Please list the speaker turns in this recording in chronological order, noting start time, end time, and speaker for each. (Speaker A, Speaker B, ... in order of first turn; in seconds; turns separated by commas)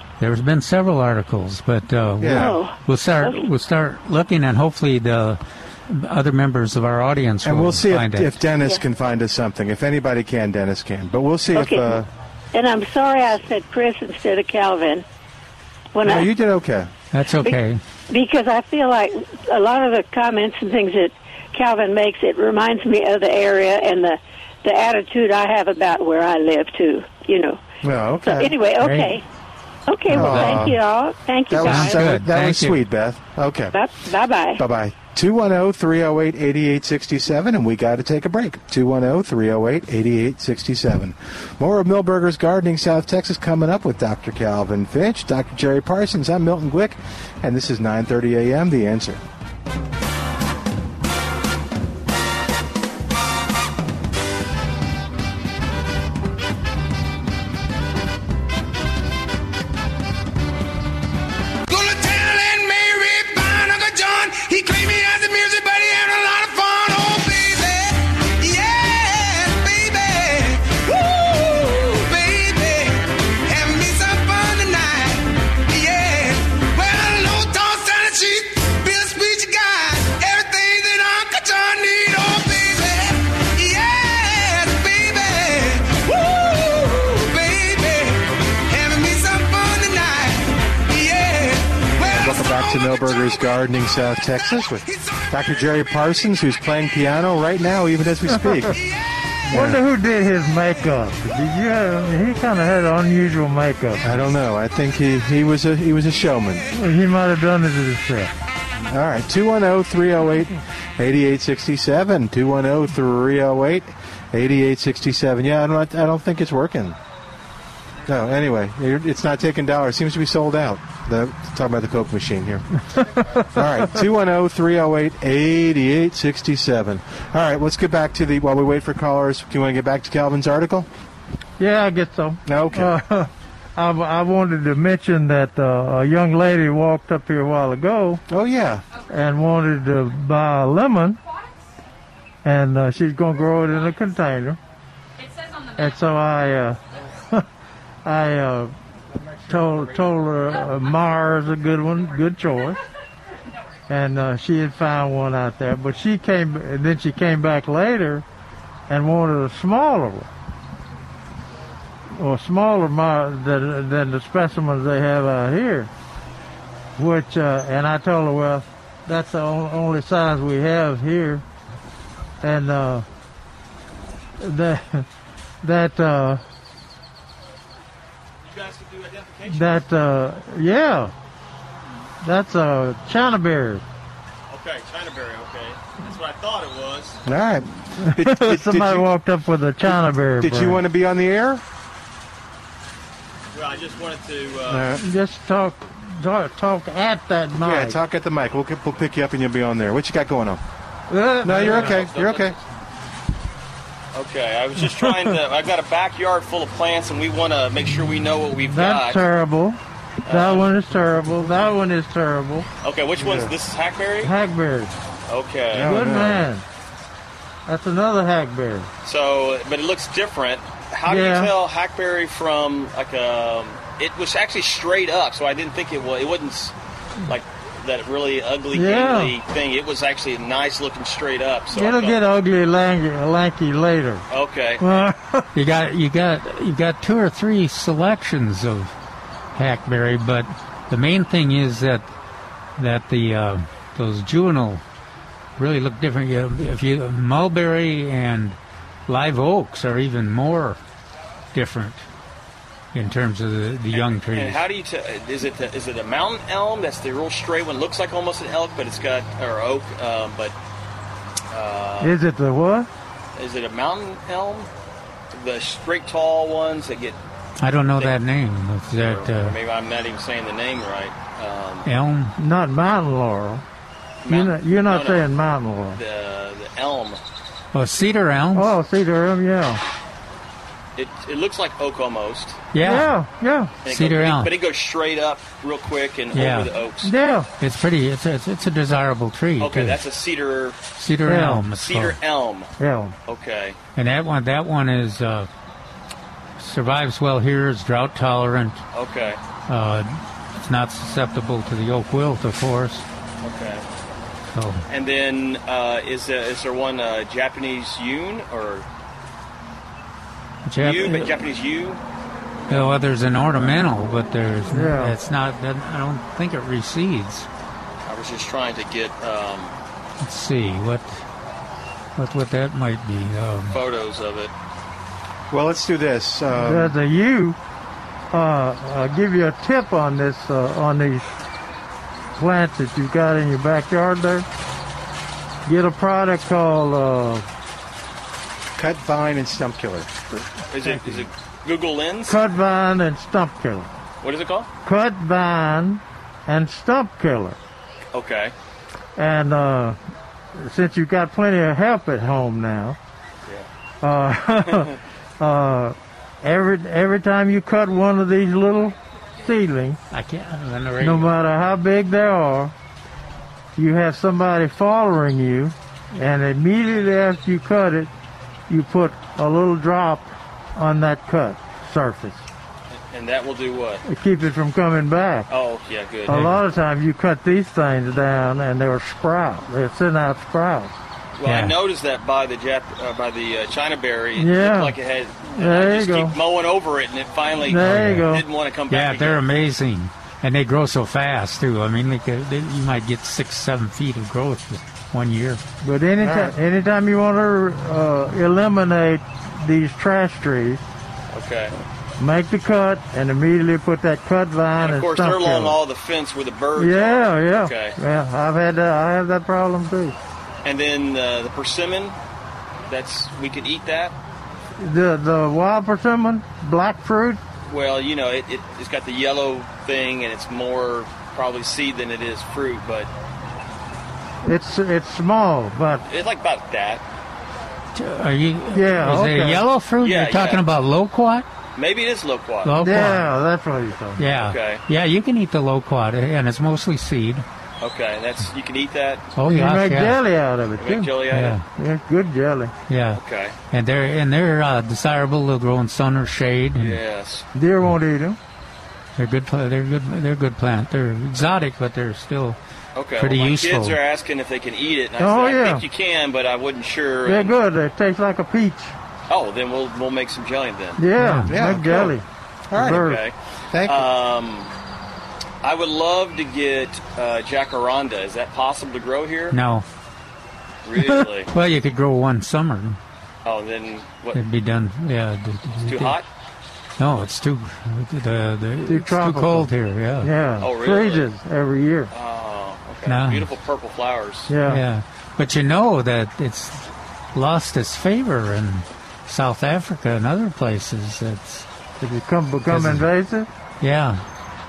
Speaker A: 0.2-8.4, Speaker B: 2.2-2.6, Speaker C: 2.3-3.5, Speaker B: 7.4-12.1, Speaker C: 11.5-12.0, Speaker C: 12.5-15.1, Speaker C: 15.9-16.3, Speaker B: 16.0-16.9, Speaker A: 17.1-17.8, Speaker C: 18.1-27.6, Speaker B: 27.8-28.6, Speaker C: 28.2-29.2, Speaker A: 28.8-29.2, Speaker C: 29.9-32.1, Speaker A: 30.1-30.8, Speaker B: 30.1-30.7, Speaker B: 31.5-33.8, Speaker A: 31.6-32.8, Speaker C: 33.7-34.6, Speaker B: 34.6-49.2, Speaker D: 61.7-93.4, Speaker B: 91.9-98.8, Speaker D: 94.8-95.2, Speaker E: 98.3-98.7, Speaker D: 98.8-99.2, Speaker B: 99.5-99.8, Speaker E: 99.5-104.0, Speaker B: 104.0-106.7, Speaker E: 106.7-108.3, Speaker B: 108.9-117.0, Speaker B: 118.1-122.7, Speaker B: 123.4-130.9, Speaker E: 131.6-138.2, Speaker B: 132.4-132.9, Speaker B: 138.3-138.8, Speaker E: 139.1-141.2, Speaker E: 142.4-144.6, Speaker E: 145.8-146.8, Speaker E: 148.1-148.7, Speaker E: 149.4-152.8, Speaker E: 153.9-158.2, Speaker E: 158.9-160.3, Speaker E: 162.2-165.9, Speaker E: 167.0-171.4, Speaker E: 172.4-173.1, Speaker E: 174.4-175.1, Speaker E: 175.6-176.4, Speaker F: 178.4-179.9, Speaker E: 179.5-181.1, Speaker E: 182.2-183.8, Speaker F: 184.5-187.2, Speaker B: 187.3-189.1, Speaker E: 188.0-190.8, Speaker B: 189.9-191.6, Speaker F: 193.5-194.9, Speaker B: 194.7-195.0, Speaker E: 195.0-198.0, Speaker B: 197.6-200.6, Speaker E: 201.1-202.0, Speaker B: 201.4-202.6, Speaker F: 201.5-202.6, Speaker F: 204.1-209.2, Speaker E: 208.7-212.7, Speaker F: 210.3-210.7, Speaker F: 212.8-214.3, Speaker E: 214.2-214.9, Speaker F: 215.3-215.9, Speaker B: 215.7-216.5, Speaker E: 215.8-216.6, Speaker E: 217.7-218.9, Speaker F: 219.0-226.7, Speaker E: 221.1-221.5, Speaker F: 227.3-232.2, Speaker E: 228.7-229.3, Speaker E: 231.7-234.2, Speaker F: 234.3-234.8, Speaker E: 234.8-235.5, Speaker A: 235.6-238.9, Speaker A: 239.6-242.1, Speaker A: 242.8-244.8, Speaker A: 245.6-248.6, Speaker A: 249.1-250.8, Speaker A: 251.5-252.0, Speaker A: 252.9-254.6, Speaker F: 253.9-260.6, Speaker F: 261.5-262.2, Speaker E: 262.0-262.9, Speaker F: 263.4-264.7, Speaker F: 265.3-267.2, Speaker A: 267.6-269.6, Speaker F: 269.0-271.9, Speaker A: 271.9-272.3, Speaker E: 272.4-273.6, Speaker F: 274.2-275.3, Speaker E: 274.3-276.0, Speaker F: 275.9-277.2, Speaker A: 277.7-278.7, Speaker E: 278.6-279.8, Speaker F: 280.9-282.6, Speaker A: 282.7-283.1, Speaker E: 282.8-283.7, Speaker F: 283.9-287.1, Speaker A: 283.9-284.5, Speaker A: 286.3-286.7, Speaker E: 287.0-287.5, Speaker A: 287.6-290.0, Speaker F: 289.6-290.9, Speaker A: 290.9-292.2, Speaker E: 291.3-291.7, Speaker F: 291.7-292.7, Speaker E: 292.8-293.1, Speaker F: 293.3-293.8, Speaker A: 293.9-295.5, Speaker A: 296.6-298.8, Speaker F: 298.9-299.4, Speaker A: 299.7-303.1, Speaker F: 303.4-303.8, Speaker A: 304.5-304.8, Speaker F: 304.9-308.9, Speaker A: 310.6-311.4, Speaker F: 310.8-312.0, Speaker A: 312.7-317.5, Speaker E: 314.7-315.1, Speaker F: 318.1-319.7, Speaker A: 320.2-321.2, Speaker A: 322.2-323.8, Speaker F: 323.7-324.5, Speaker B: 325.5-326.9, Speaker E: 326.5-327.6, Speaker E: 328.3-331.3, Speaker E: 332.4-334.4, Speaker E: 335.7-337.5, Speaker B: 338.8-340.4, Speaker F: 340.7-342.4, Speaker E: 342.3-343.9, Speaker F: 344.2-344.7, Speaker E: 344.9-347.6, Speaker F: 348.1-348.5, Speaker E: 349.2-350.0, Speaker E: 350.6-353.0, Speaker E: 354.0-360.0, Speaker A: 360.1-361.3, Speaker E: 361.0-362.7, Speaker E: 363.8-368.1, Speaker E: 368.7-372.4, Speaker F: 372.9-374.0, Speaker E: 374.1-375.5, Speaker F: 375.5-376.5, Speaker E: 376.3-380.9, Speaker A: 376.3-376.6, Speaker F: 381.4-389.4, Speaker A: 381.4-381.8, Speaker E: 384.4-384.9, Speaker E: 385.5-386.4, Speaker E: 387.7-388.4, Speaker A: 387.8-388.2, Speaker A: 388.9-395.6, Speaker E: 395.8-400.8, Speaker F: 401.3-401.7, Speaker E: 402.2-405.8, Speaker F: 404.8-408.0, Speaker E: 406.8-410.1, Speaker F: 410.6-412.2, Speaker F: 412.9-414.1, Speaker E: 414.8-417.4, Speaker F: 417.6-423.1, Speaker E: 424.4-426.0, Speaker F: 426.1-427.0, Speaker A: 427.9-431.4, Speaker E: 428.7-429.6, Speaker F: 430.0-430.7, Speaker F: 431.8-432.8, Speaker A: 432.6-433.3, Speaker E: 432.8-434.2, Speaker A: 434.2-437.4, Speaker F: 434.3-434.8, Speaker F: 437.8-439.3, Speaker A: 439.4-440.2, Speaker E: 439.5-441.2, Speaker F: 440.8-441.6, Speaker A: 441.3-441.6, Speaker E: 441.8-442.7, Speaker A: 442.9-443.2, Speaker F: 443.2-443.6, Speaker A: 443.7-447.0, Speaker F: 446.8-447.4, Speaker E: 447.6-448.4, Speaker A: 449.2-452.6, Speaker F: 452.9-457.6, Speaker A: 453.2-454.0, Speaker E: 455.2-455.8, Speaker E: 457.3-458.9, Speaker F: 459.3-461.0, Speaker E: 461.0-462.2, Speaker A: 461.2-461.5, Speaker B: 461.5-462.1, Speaker B: 462.7-463.1, Speaker E: 462.8-463.2, Speaker F: 462.8-464.7, Speaker B: 463.7-464.1, Speaker F: 465.6-469.6, Speaker A: 469.5-469.9, Speaker F: 470.9-471.5, Speaker A: 471.5-473.0, Speaker F: 473.4-474.4, Speaker A: 474.3-476.2, Speaker F: 475.9-476.2, Speaker A: 477.0-480.3, Speaker E: 478.9-482.1, Speaker F: 480.6-481.3, Speaker F: 482.1-484.5, Speaker A: 483.1-483.5, Speaker E: 484.5-484.8, Speaker A: 484.6-491.7, Speaker E: 492.0-493.5, Speaker A: 492.7-493.1, Speaker A: 493.8-494.2